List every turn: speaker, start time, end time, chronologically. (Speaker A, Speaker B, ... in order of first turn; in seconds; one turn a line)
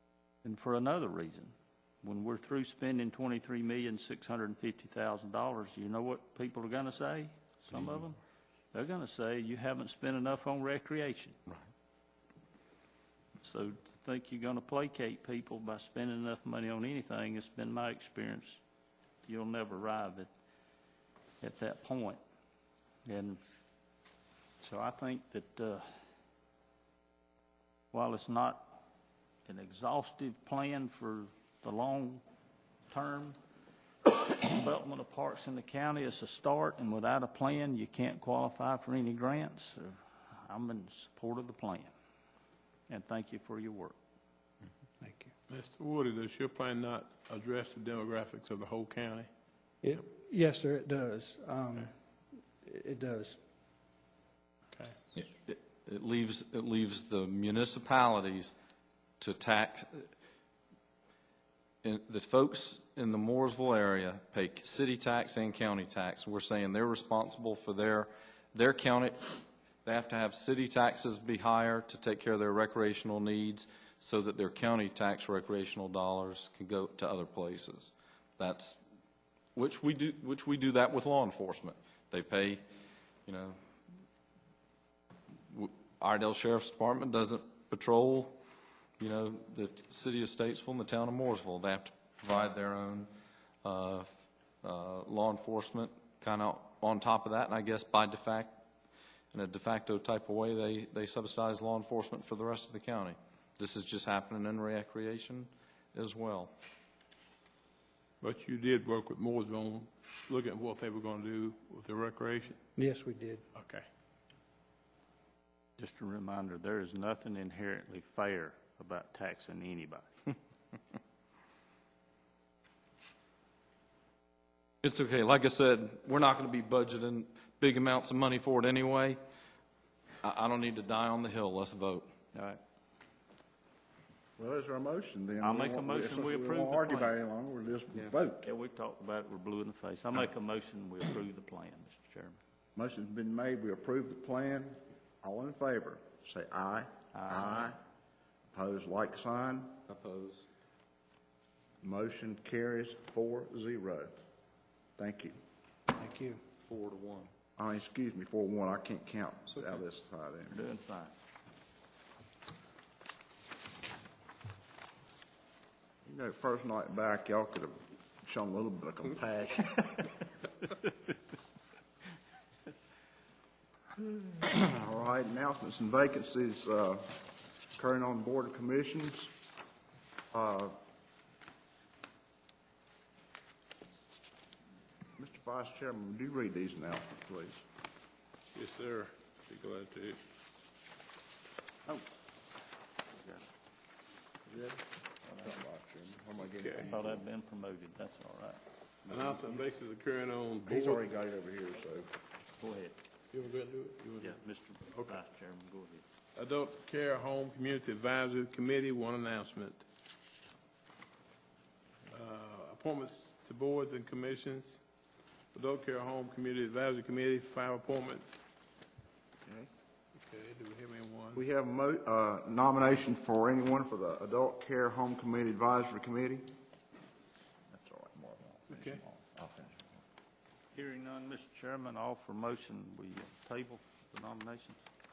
Speaker A: 0.4-8.2
Speaker A: 8.7-11.4
Speaker A: 13.4-18.6
Speaker A: 19.2-20.3
Speaker A: 21.4-22.2
Speaker A: 23.0-23.4
Speaker A: 24.6-25.9
Speaker A: 27.9-28.8
Speaker A: 29.4-32.2
Speaker A: 32.9-33.4
Speaker A: 34.0-41.9
Speaker A: 42.9-44.0
Speaker B: 45.0-45.3
Speaker C: 45.5-49.3
Speaker B: 49.8-51.9
Speaker B: 52.6-53.4
Speaker D: 55.1-58.5
Speaker D: 59.2-60.1
Speaker D: 61.8-78.8
Speaker D: 79.5-82.6
Speaker D: 83.2-83.6
Speaker D: 85.5-88.4
Speaker D: 89.0-93.1
Speaker D: 93.6-94.1
Speaker D: 94.6-98.6
Speaker D: 99.3-106.5
Speaker C: 108.2-112.6
Speaker B: 112.8-113.4
Speaker C: 113.5-113.8
Speaker A: 115.8-120.1
Speaker D: 124.8-129.2
Speaker D: 130.2-132.1
Speaker A: 132.3-132.6
Speaker E: 134.4-138.5
Speaker A: 135.4-137.1
Speaker A: 138.4-142.4
Speaker E: 142.8-147.8
Speaker A: 147.1-147.7
Speaker E: 148.5-149.8
Speaker D: 149.9-150.5
Speaker E: 151.8-154.1
Speaker E: 155.0-155.3
Speaker B: 155.9-156.4
Speaker D: 156.6-157.3
Speaker E: 157.6-160.6
Speaker D: 159.5-159.8
Speaker A: 160.5-161.1
Speaker E: 166.0-170.1
Speaker E: 174.3-177.2
Speaker E: 177.8-179.3
Speaker E: 180.3-180.7
Speaker E: 185.2-187.6
Speaker C: 188.5-190.2
Speaker E: 194.5-194.8
Speaker E: 195.3-197.2
Speaker C: 196.5-196.9
Speaker A: 196.8-198.6
Speaker C: 199.1-201.1
Speaker E: 199.1-199.4
Speaker E: 200.6-202.1
Speaker A: 202.6-203.0
Speaker C: 203.3-204.3
Speaker A: 204.2-206.0
Speaker C: 204.9-205.2
Speaker C: 206.3-209.8
Speaker C: 212.1-214.8
Speaker C: 215.5-218.4
Speaker C: 220.1-221.4
Speaker E: 221.3-226.5
Speaker E: 227.7-230.0
Speaker C: 228.7-229.0
Speaker A: 230.7-234.8